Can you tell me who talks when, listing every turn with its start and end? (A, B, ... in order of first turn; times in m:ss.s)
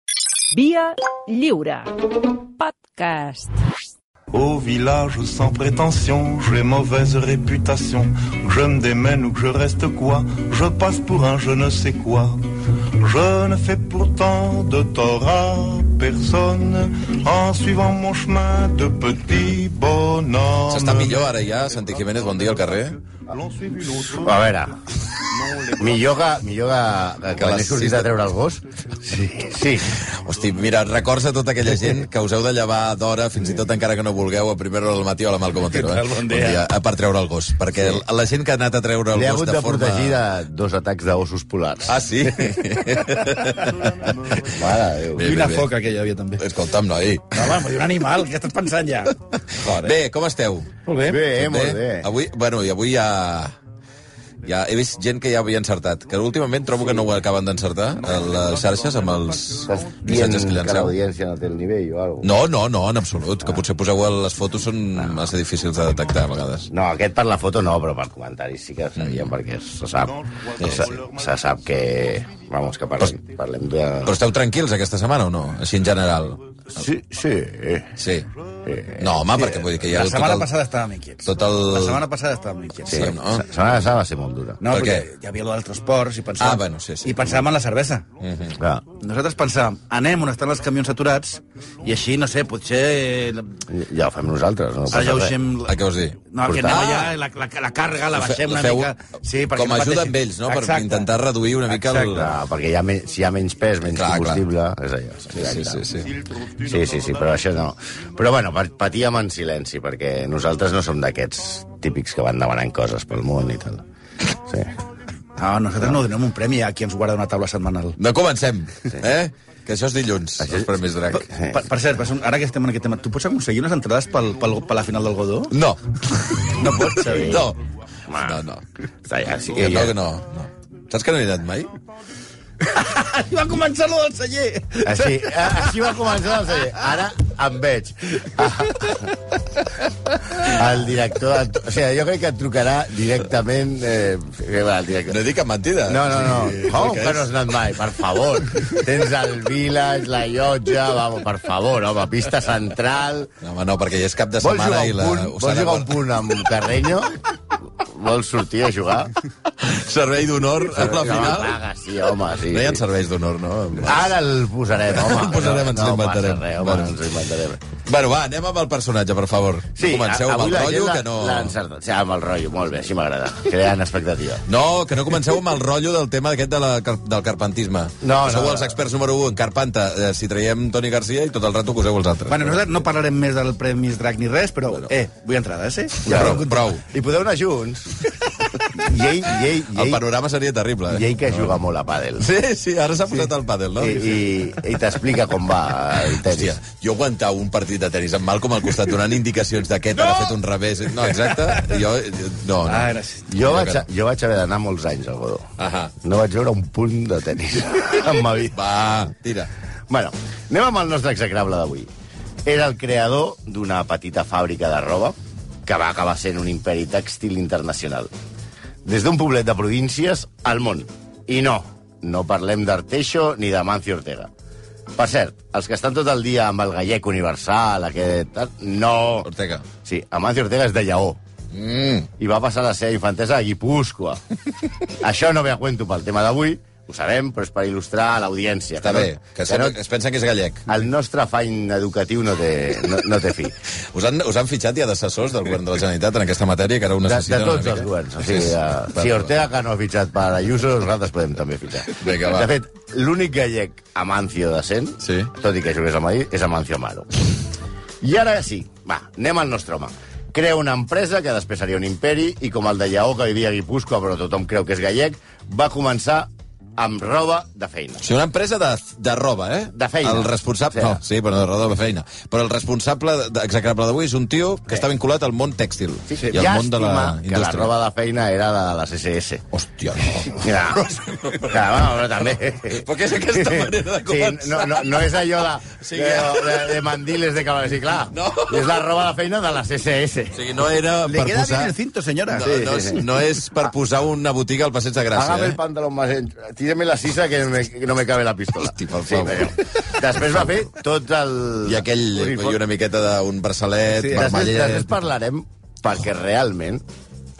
0:00.5-0:03.6 A
0:04.3-0:21.3 B
0:20.7-0:23.0 C
0:23.3-0:24.5 B
0:24.1-0:24.8 D
0:25.4-0:25.8 B
0:25.8-0:30.0 D
0:27.4-0:28.1 C
0:30.0-0:40.2 C
0:35.7-0:36.6 E
0:39.1-0:42.6 D
0:41.9-0:44.5 C
0:44.5-0:45.3 D
0:45.2-0:45.7 C
0:45.2-0:46.4 E
0:46.4-0:47.6 C
0:47.3-0:49.9 E
0:49.5-0:50.7 C
0:50.8-0:51.2 E
0:51.0-0:52.1 D
0:51.3-0:53.5 C
0:54.4-1:00.9 C
0:59.7-1:02.3 D
1:02.2-1:06.7 C
1:05.0-1:05.3 D
1:06.7-1:14.2 D
1:09.0-1:09.3 C
1:10.2-1:11.1 B
1:10.6-1:10.9 C
1:14.0-1:16.4 C
1:16.7-1:18.0 D
1:18.0-1:18.3 C
1:18.6-1:19.2 D
1:19.0-1:20.5 C
1:19.3-1:23.2 E
1:21.2-1:22.0 C
1:22.9-1:24.6 D
1:22.9-1:23.4 C
1:24.6-1:28.0 E
1:24.7-1:25.1 C
1:26.4-1:27.4 C
1:28.2-1:28.6 C
1:28.6-1:28.8 D
1:28.9-1:33.6 E
1:33.7-1:35.4 D
1:34.9-1:41.1 E
1:35.6-1:37.2 C
1:36.4-1:36.8 D
1:38.1-1:38.9 C
1:39.5-1:42.4 C
1:41.7-1:42.3 E
1:42.1-1:46.0 D
1:43.9-1:44.4 C
1:45.4-1:46.1 C
1:46.6-1:54.7 D
1:55.4-1:58.0 E
1:58.0-2:01.3 C
2:00.4-2:00.7 D
2:01.3-2:05.5 E
2:05.5-2:07.6 C
2:06.3-2:07.4 E
2:07.0-2:07.5 D
2:08.1-2:08.4 D
2:08.1-2:08.6 C
2:09.0-2:10.0 D
2:09.5-2:11.7 C
2:12.6-2:15.9 E
2:14.8-2:19.1 D
2:20.4-2:25.2 D
2:25.1-2:27.5 C
2:25.8-2:33.3 D
2:33.4-2:36.3 C
2:34.4-2:37.2 D
2:37.8-2:39.2 D
2:39.6-2:41.6 C
2:40.7-2:42.8 D
2:42.5-2:44.1 C
2:43.8-2:47.6 D
2:44.9-2:47.0 C
2:47.8-2:51.5 C
2:49.8-2:54.4 D
2:54.5-3:02.6 C
2:58.0-2:58.8 D
3:02.3-3:06.6 E
3:06.0-3:06.8 C
3:06.1-3:08.0 D
3:08.7-3:10.0 D
3:09.7-3:11.5 C
3:10.9-3:12.3 D
3:12.2-3:14.1 C
3:13.8-3:16.6 D
3:16.0-3:23.8 C
3:21.1-3:21.8 E
3:22.6-3:23.3 E
3:23.3-3:25.5 D
3:25.6-3:25.9 C
3:26.0-3:28.6 D
3:28.5-3:29.5 C
3:29.9-3:31.9 D
3:32.4-3:38.1 D
3:38.8-3:44.3 D
3:44.9-3:49.3 D
3:49.2-3:49.6 C
3:49.8-3:51.2 D
3:51.5-3:52.1 C
3:52.2-3:54.2 D
3:55.0-3:59.8 D
3:58.8-4:00.7 C
4:00.7-4:03.5 D
4:03.9-4:09.3 C
4:07.0-4:17.2 D
4:11.9-4:12.5 C
4:15.0-4:15.3 C
4:18.0-4:28.0 D
4:28.0-4:37.7 C
4:29.7-4:31.0 D
4:36.1-4:39.4 D
4:39.5-4:41.7 C
4:40.2-4:50.4 D
4:42.6-4:45.2 C
4:45.8-4:46.9 C
4:48.1-4:48.8 C
4:50.3-4:51.7 C
4:51.0-4:52.6 E
4:52.3-4:55.6 C
4:52.4-4:53.0 D
4:55.1-5:02.6 D
4:58.6-5:00.2 C
5:01.6-5:05.0 C
5:04.1-5:06.8 D